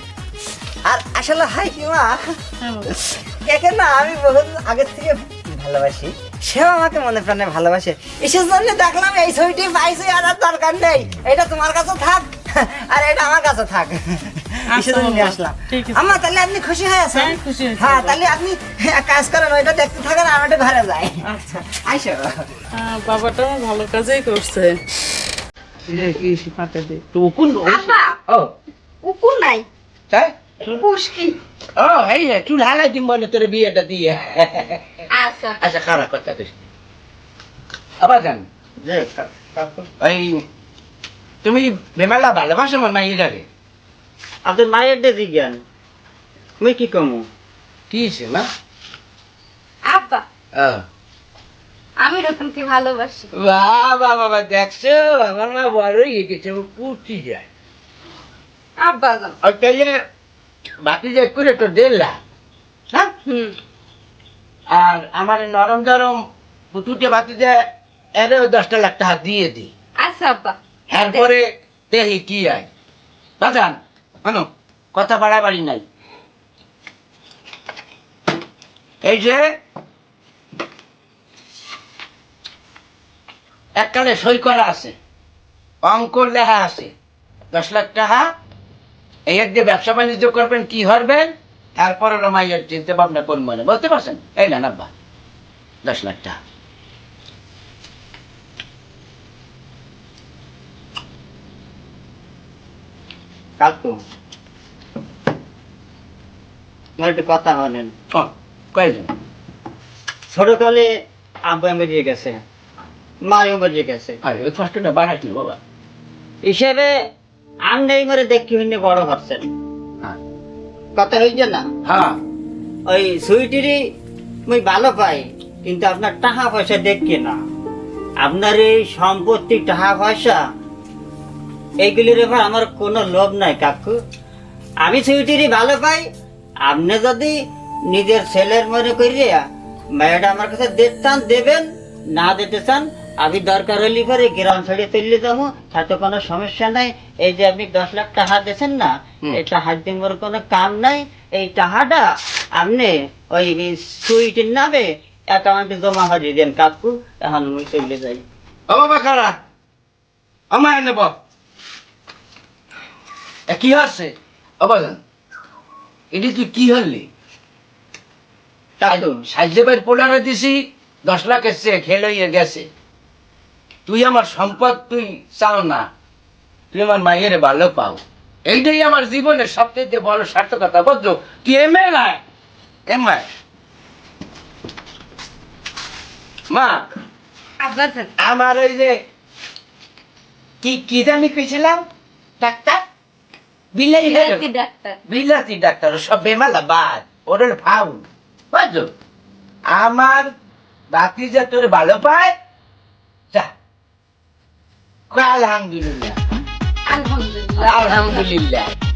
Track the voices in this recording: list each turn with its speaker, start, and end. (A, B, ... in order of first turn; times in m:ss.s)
0:00.8-0:22.5 A
0:02.6-0:02.9 B
0:14.7-0:16.2 B
0:17.1-0:18.2 B
0:22.7-0:24.8 B
0:25.9-0:28.5 C
0:27.7-0:28.2 D
0:29.0-0:29.6 D
0:30.1-0:30.3 C
0:30.6-0:31.4 A
0:31.8-0:34.8 C
0:35.1-0:35.6 D
0:35.6-0:36.6 C
0:38.0-0:38.4 C
0:38.8-0:39.7 E
0:40.0-0:40.4 C
0:41.4-0:43.4 C
0:44.4-0:45.6 E
0:46.6-0:47.3 E
0:47.9-0:48.5 C
0:49.8-0:50.2 D
0:50.5-0:50.8 C
0:52.0-0:53.3 D
0:53.4-0:57.4 C
0:58.8-0:59.4 D
0:59.4-1:00.0 C
1:00.8-1:02.2 C
1:03.2-1:03.6 D
1:04.7-1:09.7 C
1:10.0-1:10.6 D
1:10.9-1:12.7 C
1:13.4-1:15.8 C
1:19.0-1:19.5 C
1:23.8-1:25.0 C
1:25.8-1:26.9 C
1:27.5-1:28.3 C
1:29.3-1:34.9 C
1:35.8-1:36.4 C
1:43.6-1:44.0 E
1:47.0-1:47.9 E
1:48.1-1:49.1 C
1:50.3-1:52.4 E
1:53.2-1:54.2 E
1:54.2-1:55.6 C
1:56.4-1:57.1 E
1:57.6-1:59.5 E
2:00.9-2:01.7 E
2:01.8-2:02.2 C
2:02.9-2:03.8 E
2:04.5-2:07.4 E
2:08.2-2:10.4 E
2:11.8-2:14.0 E
2:14.8-2:16.1 E
2:16.6-2:19.4 E
2:20.0-2:38.2 E
2:38.7-2:39.4 C
2:40.5-2:41.1 C
2:43.5-2:45.0 C
2:46.1-2:47.1 C
2:48.8-2:49.2 E
2:48.8-2:52.7 C
2:53.9-2:55.9 C
2:56.7-3:02.2 C
3:02.9-3:03.2 C
3:06.5-3:06.8 C
3:07.6-3:08.1 D
3:08.2-3:09.0 C
3:10.6-3:11.8 C
3:12.4-3:12.8 C
3:13.7-3:14.4 C
3:14.0-3:15.0 D
3:15.1-3:18.9 C
3:19.7-3:20.3 C
3:20.9-3:22.3 C
3:25.1-3:26.2 C
3:26.9-3:28.2 D
3:27.6-3:28.7 C